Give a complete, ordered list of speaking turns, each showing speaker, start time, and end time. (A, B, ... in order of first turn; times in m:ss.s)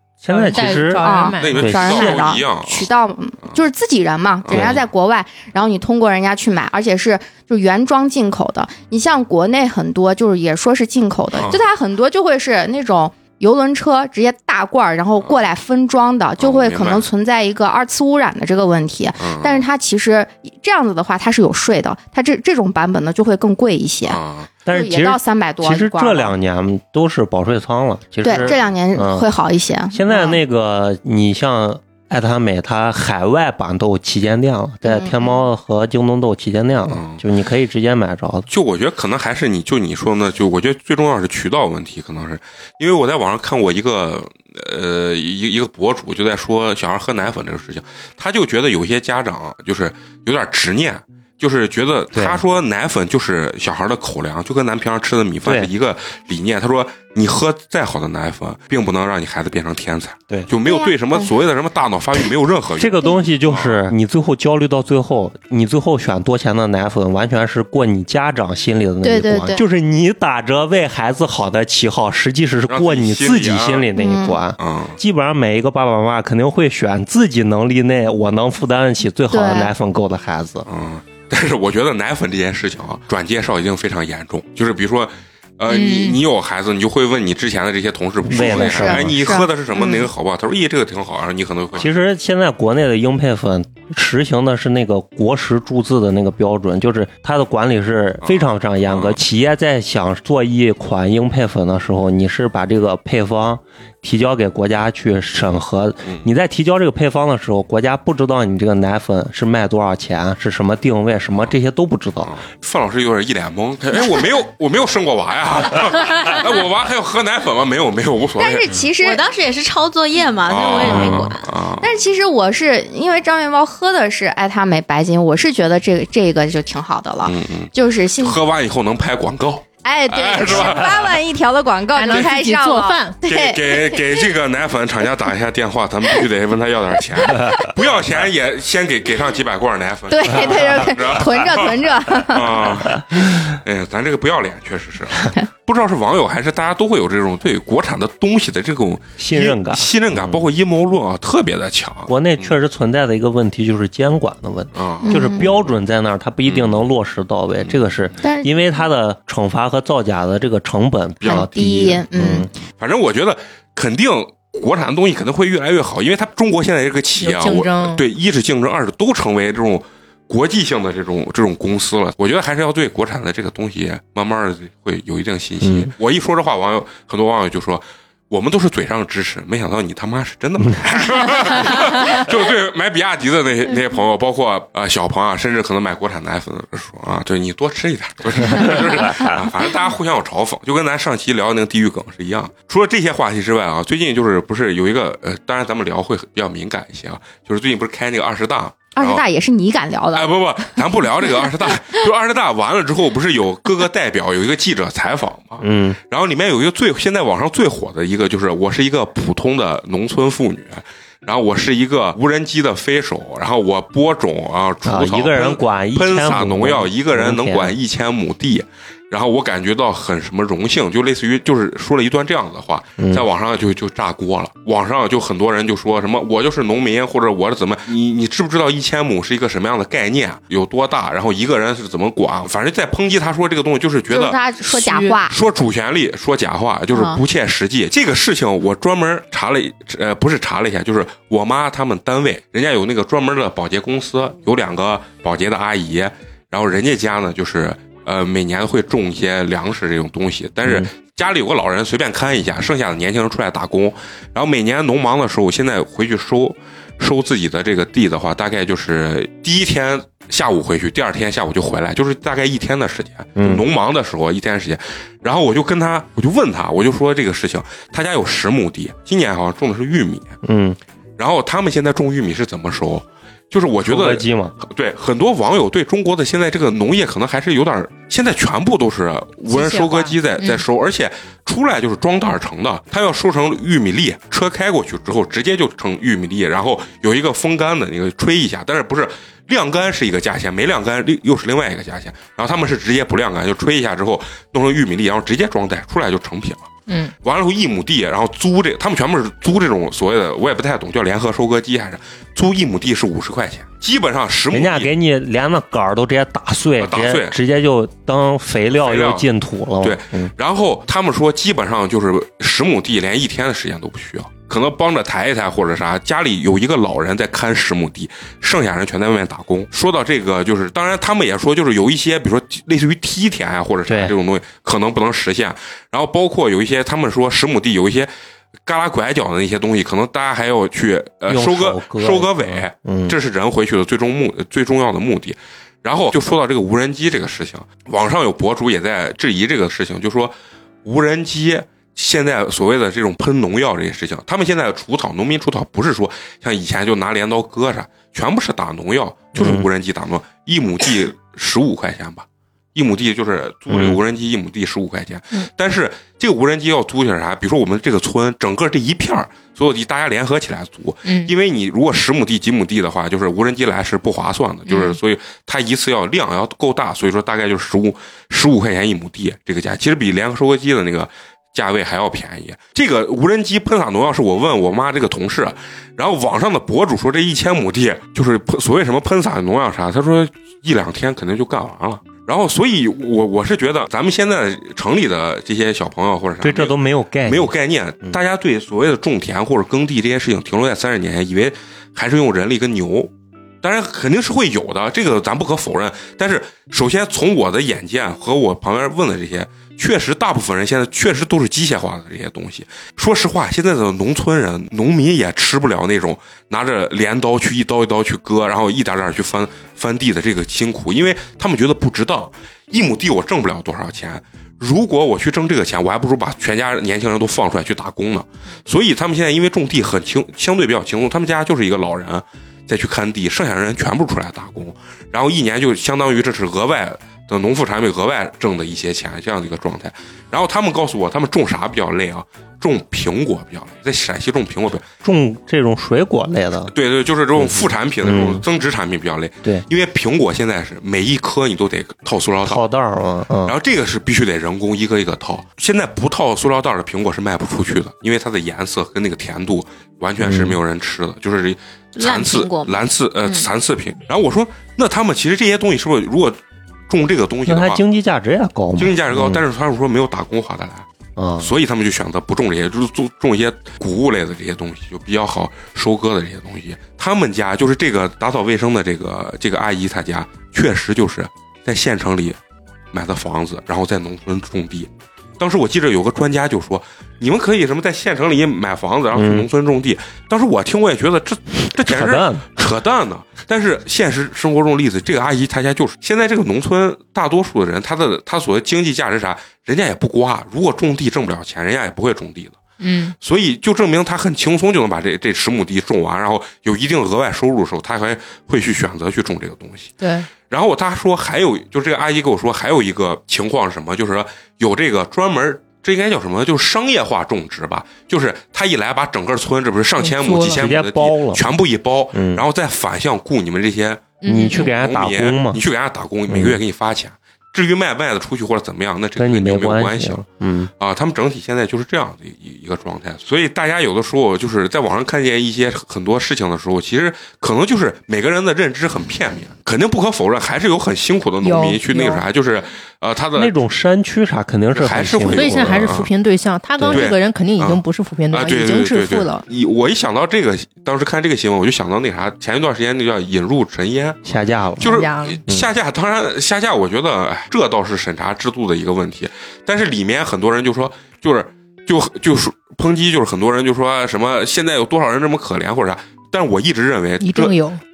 0:00.2-0:02.2 A
0:00.3-0:01.6 B
0:00.5-0:26.3 C
0:01.4-0:02.9 D
0:04.4-0:04.8 D
0:04.5-0:04.8 A
0:11.3-0:11.6 D
0:16.4-0:17.0 D
0:19.2-0:19.6 D
0:24.0-0:24.5 D
0:24.6-0:29.3 A
0:28.2-0:30.4 C
0:29.9-0:38.5 A
0:34.8-0:35.4 C
0:36.9-0:37.2 D
0:38.5-1:03.9 D
0:52.1-0:52.4 A
0:55.4-0:55.7 A
1:00.6-1:01.4 C
1:02.8-1:20.7 A
1:09.0-1:09.6 C
1:12.7-1:13.9 D
1:13.9-1:14.4 C
1:14.6-1:15.0 D
1:19.3-1:19.7 C
1:20.7-1:31.9 D
1:25.8-1:26.1 B
1:28.2-1:29.2 A
1:28.3-1:30.1 C
1:31.7-1:52.4 A
1:38.2-1:39.2 D
1:52.2-1:58.7 D
1:58.4-1:59.2 C
1:59.0-2:01.5 E
2:00.4-2:01.9 D
2:00.8-2:01.3 A
2:01.8-2:08.4 C
2:07.2-2:11.2 D
2:09.8-2:14.3 C
2:11.9-2:13.2 B
2:13.2-2:32.5 D
2:20.1-2:22.7 C
2:29.2-2:30.5 A
2:32.1-2:42.5 A
2:34.7-2:35.4 D
2:35.0-2:35.5 C
2:36.4-2:36.8 D
2:37.6-2:38.1 D
2:38.2-2:38.5 C
2:41.2-2:42.5 C
2:42.8-3:19.2 D
2:47.2-2:48.0 B
2:55.6-2:55.9 A
3:18.9-3:20.3 C
3:20.1-3:54.4 D
3:25.6-3:26.0 A
3:34.8-3:37.8 A
3:43.0-3:43.2 A
3:54.1-3:55.4 C
3:54.7-3:55.2 B
3:55.3-4:30.4 D
3:56.9-3:57.2 C
4:10.6-4:10.9 A
4:23.4-4:23.6 A
4:30.4-4:30.8 A
4:31.2-5:04.9 D
4:33.8-4:34.5 A
4:39.5-4:40.6 B
4:56.9-4:57.1 B
5:04.5-5:10.3 A
5:06.8-5:07.4 D
5:08.7-5:09.2 D
5:09.8-5:28.1 D
5:23.9-5:24.1 A
5:28.6-7:14.9 D
5:31.3-5:33.2 A
5:49.3-5:49.7 A
5:53.7-5:54.0 A
6:01.0-6:01.3 B
6:04.7-6:05.0 B
6:26.4-6:28.2 A
7:15.0-7:16.7 A
7:16.7-7:22.6 D
7:17.4-7:18.4 A
7:22.4-7:23.6 A
7:23.4-7:37.8 D
7:30.2-7:30.6 A
7:32.0-7:33.5 E
7:37.4-7:39.4 A
7:38.8-7:40.9 D
7:41.2-7:41.5 A
7:41.4-7:52.4 D
7:52.9-8:12.6 D
7:59.1-7:59.5 A
8:01.8-8:02.5 A
8:12.8-8:13.1 B
8:13.2-8:40.2 D
8:20.0-8:20.3 B
8:30.0-8:30.6 B
8:30.4-8:31.5 A
8:32.1-8:32.4 A
8:34.2-8:34.7 B
8:34.2-8:35.6 A
8:36.3-8:36.6 A
8:39.2-8:40.7 A
8:40.8-8:53.5 D
8:51.4-8:52.2 B
8:53.4-8:56.0 A
8:54.7-8:56.1 D
8:55.3-8:59.4 B
8:56.8-8:57.1 A
8:56.9-9:04.2 D
9:04.2-9:05.7 A
9:04.8-9:17.6 D
9:04.8-9:05.4 B
9:17.2-9:17.8 B